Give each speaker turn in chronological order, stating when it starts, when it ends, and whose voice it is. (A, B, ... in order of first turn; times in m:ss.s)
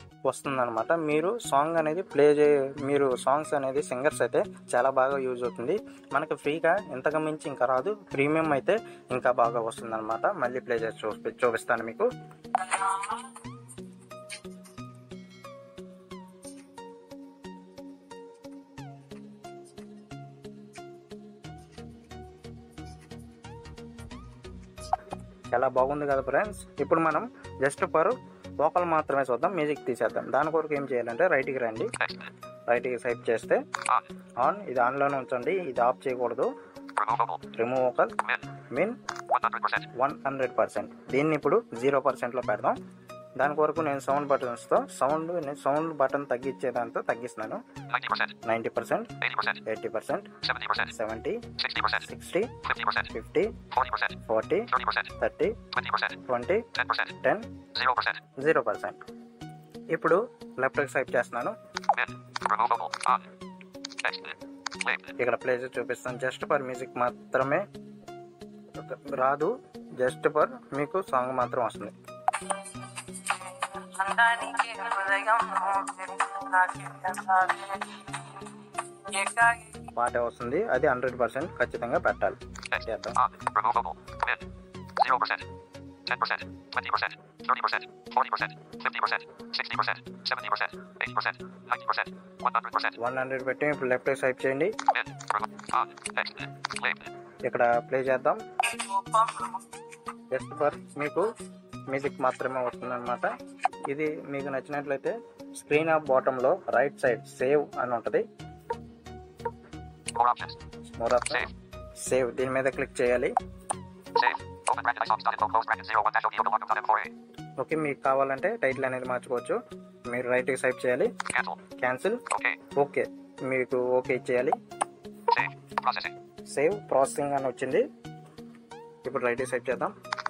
0:00.3-0:12.1 A
0:25.5-0:31.9 A
0:32.0-0:32.3 B
0:32.7-0:33.6 A
0:34.4-0:36.5 A
0:37.0-0:37.5 B
0:37.5-0:38.1 A
0:38.2-0:38.5 B
0:39.3-0:39.9 B
0:39.9-0:42.8 A
0:43.4-0:47.6 A
0:47.9-0:48.4 B
0:48.4-0:49.1 A
0:49.2-0:49.6 B
0:49.6-0:50.3 A
0:50.4-0:50.9 B
0:50.8-0:52.5 A
0:51.6-0:52.1 B
0:52.6-0:53.1 B
0:53.1-0:53.6 A
0:53.7-0:54.2 B
0:54.2-0:55.6 A
0:54.7-0:55.1 B
0:55.7-0:56.2 B
0:56.2-0:57.5 A
0:56.7-0:57.1 B
0:57.7-0:58.2 B
0:58.4-0:59.0 A
0:59.9-1:01.6 A
1:01.9-1:03.3 B
1:04.0-1:05.2 B
1:05.2-1:07.6 A
1:08.8-1:11.9 A
1:13.0-1:18.3 C
1:19.1-1:19.8 C
1:19.9-1:23.2 A
1:22.7-1:25.5 B
1:26.0-1:33.0 B
1:33.0-1:34.7 A
1:34.9-1:37.1 B
1:37.4-1:38.4 A
1:40.3-1:41.3 A
1:41.9-1:43.3 A
1:43.9-1:48.2 A
1:50.1-1:50.6 B
1:51.0-1:51.5 A
1:52.0-1:53.3 A
1:54.1-1:57.1 B
1:57.6-1:59.6 A
2:00.1-2:01.1 A
2:01.3-2:01.6 B
2:01.8-2:02.2 A
2:02.3-2:02.6 B
2:02.7-2:04.6 A
2:05.3-2:06.1 B
2:06.5-2:07.8 A
2:09.0-2:09.9 A